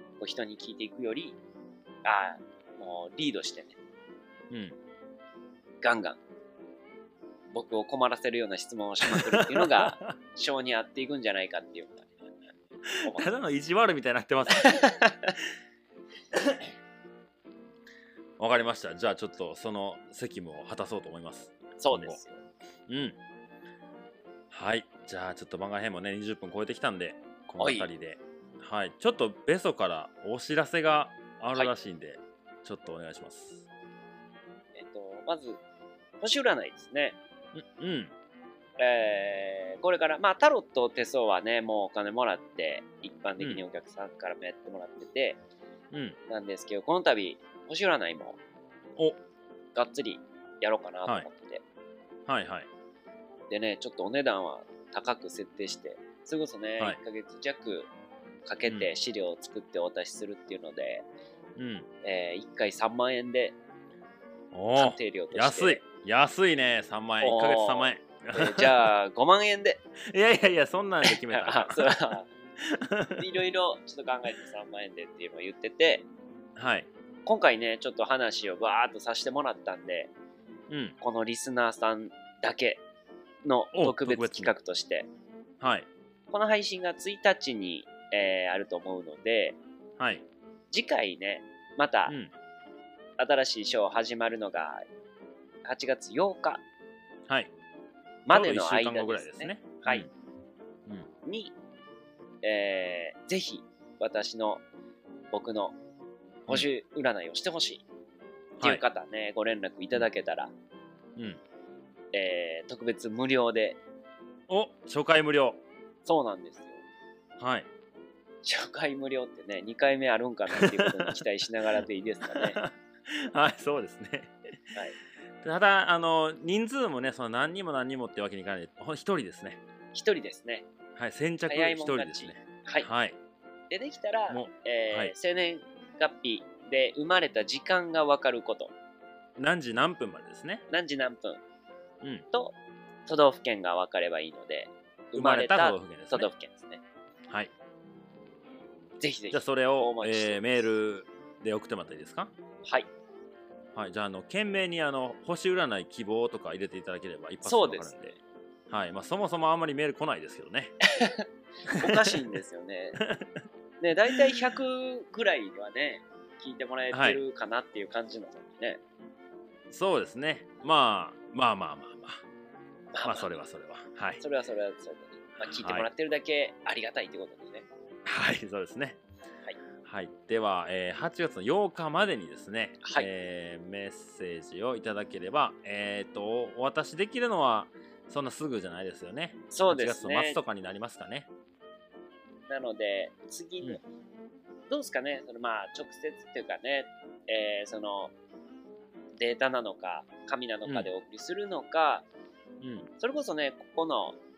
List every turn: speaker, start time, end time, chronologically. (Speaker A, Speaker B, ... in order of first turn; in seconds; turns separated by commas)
Speaker A: 0.2-1.4, Speaker A: 2.0-3.8, Speaker B: 4.5-4.8, Speaker A: 5.8-6.2, Speaker A: 7.5-12.1, Speaker B: 9.1-10.2, Speaker B: 12.9-14.9, Speaker A: 13.0-13.5, Speaker A: 14.5-15.4, Speaker B: 18.4-22.2, Speaker A: 21.8-22.4, Speaker B: 22.9-23.2, Speaker B: 24.5-33.6, Speaker A: 27.6-27.9, Speaker A: 34.8-35.6, Speaker A: 36.2-37.2, Speaker B: 37.5-38.1, Speaker A: 38.8-45.4, Speaker B: 43.4-43.6, Speaker B: 45.9-46.2, Speaker A: 46.3-48.4, Speaker A: 49.8-51.6, Speaker B: 52.3-52.7, Speaker A: 53.5-57.9, Speaker A: 58.5-61.1, Speaker B: 61.6-61.9, Speaker A: 62.0-63.6, Speaker B: 64.5-68.7, Speaker A: 64.8-65.8, Speaker A: 67.2-69.8, Speaker B: 70.1-73.2, Speaker A: 71.0-72.3, Speaker A: 73.2-76.1, Speaker B: 76.6-76.9, Speaker A: 77.3-80.1, Speaker B: 80.7-81.0, Speaker A: 81.0-82.8, Speaker A: 83.4-85.1, Speaker B: 83.8-84.5, Speaker B: 85.6-85.9, Speaker A: 86.3-89.6, Speaker B: 90.0-90.2, Speaker A: 90.7-92.2, Speaker B: 92.1-92.3, Speaker A: 93.2-94.8, Speaker A: 95.6-96.6, Speaker A: 98.3-100.1, Speaker B: 98.3-100.1, Speaker A: 101.2-101.5, Speaker A: 102.4-104.6, Speaker A: 105.3-105.8, Speaker A: 106.5-107.8, Speaker B: 108.6-108.8, Speaker A: 108.6-110.5, Speaker B: 111.2-111.4, Speaker A: 112.1-113.8, Speaker B: 114.5-115.6, Speaker A: 116.0-116.8, Speaker B: 117.4-117.7, Speaker A: 118.4-122.6, Speaker B: 120.5-121.2, Speaker B: 122.3-124.3, Speaker B: 125.4-129.6, Speaker A: 129.9-130.7, Speaker B: 131.0-133.2, Speaker A: 131.5-132.9, Speaker A: 133.7-138.7, Speaker B: 134.3-135.1, Speaker B: 139.4-140.6, Speaker A: 140.7-141.4, Speaker A: 142.3-146.8, Speaker B: 145.1-146.3, Speaker A: 149.0-150.7, Speaker B: 149.3-152.3, Speaker B: 153.8-158.2, Speaker A: 157.4-157.9, Speaker B: 158.7-160.8, Speaker A: 161.0-163.0, Speaker B: 163.0-163.3, Speaker A: 163.8-168.8, Speaker B: 166.9-167.2, Speaker B: 169.7-172.2, Speaker A: 172.9-173.4, Speaker B: 173.0-174.2, Speaker A: 174.2-177.7, Speaker B: 175.4-175.9, Speaker B: 178.1-179.0, Speaker B: 179.8-191.3, Speaker A: 182.8-183.1, Speaker A: 189.5-190.4, Speaker A: 192.5-193.8, Speaker A: 194.7-198.1, Speaker A: 199.2-202.1, Speaker B: 202.6-202.9, Speaker A: 203.0-204.2